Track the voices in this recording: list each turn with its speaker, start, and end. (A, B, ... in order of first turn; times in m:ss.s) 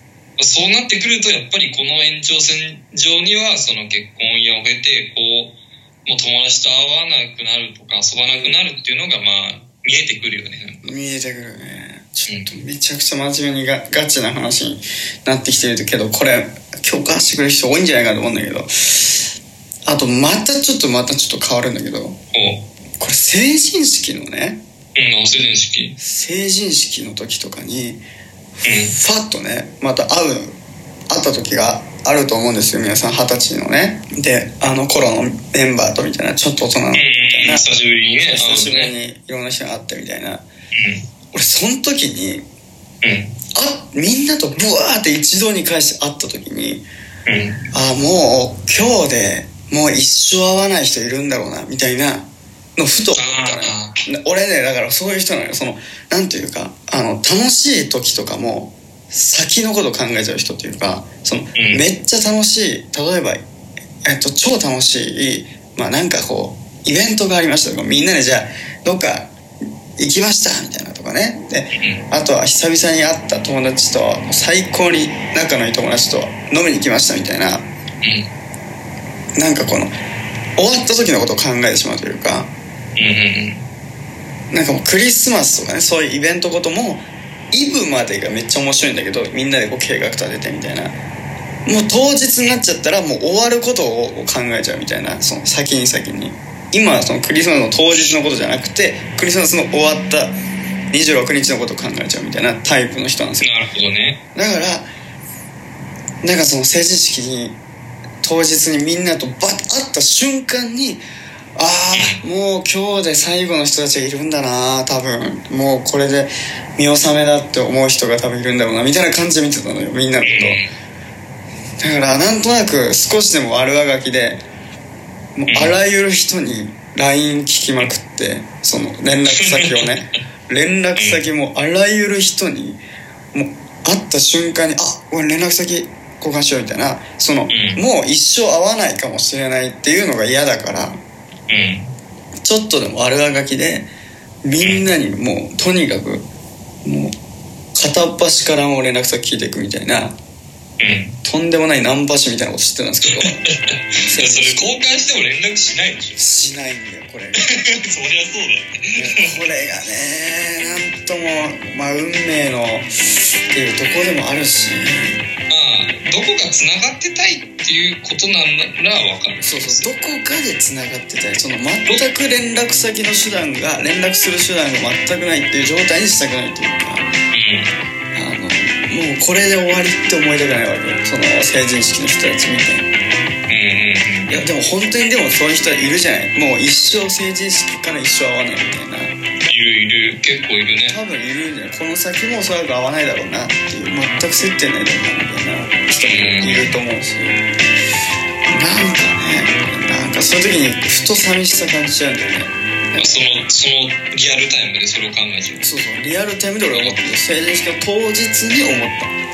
0:00.4-0:10.9 A
0:08.2-0:08.6 B
0:10.8-0:19.2 B
0:19.8-0:22.2 B
0:22.3-0:22.6 A
0:23.0-0:24.6 B
0:24.9-0:26.0 A
0:26.0-0:28.0 B
0:28.6-0:30.6 B
0:28.6-0:28.9 A
0:31.1-0:37.6 B
0:36.9-0:38.9 A
0:38.2-0:40.4 B
0:40.7-0:41.0 A
0:41.3-0:42.4 B
0:43.0-0:43.3 A
0:43.5-0:46.8 B
0:47.2-0:47.6 A
0:47.7-1:03.4 B
0:53.1-0:54.0 A
1:01.6-1:01.8 A
1:04.0-1:09.3 B
1:10.0-1:17.7 B
1:11.8-1:12.0 A
1:18.0-1:18.3 A
1:19.4-1:19.9 B
1:20.6-1:22.5 B
1:23.0-1:23.7 A
1:24.5-1:31.0 B
1:31.6-1:40.4 B
1:40.9-1:43.5 B
1:43.4-1:44.2 A
1:44.3-1:44.9 B
1:46.2-1:47.6 B
1:48.2-1:51.0 B
1:51.6-2:00.6 B
1:51.9-1:52.2 A
2:00.2-2:00.7 A
2:01.8-2:04.4 B
2:05.4-2:12.8 B
2:05.5-2:05.8 A
2:09.4-2:09.9 A
2:11.0-2:11.2 A
2:13.3-2:21.0 B
2:17.5-2:17.8 A
2:21.5-2:21.9 A
2:22.4-2:23.9 B
2:24.4-2:26.3 B
2:24.6-2:24.9 A
2:26.8-2:27.1 B
2:27.7-2:30.2 B
2:30.8-2:31.2 A
2:31.2-2:33.4 B
2:33.1-2:36.2 A
2:34.0-2:34.8 B
2:36.2-2:37.6 B
2:37.7-2:39.2 A
2:38.9-2:45.2 B
2:45.5-2:49.9 A
2:49.4-2:57.1 B
2:57.3-2:57.8 A
2:58.1-3:02.9 B
3:03.5-3:04.4 A
3:04.3-3:09.2 B
3:09.5-3:11.0 A
3:10.9-3:17.4 B
3:16.0-3:16.7 A
3:18.4-3:23.2 B
3:23.0-3:25.7 A
3:25.6-3:29.1 B
3:26.7-3:27.0 A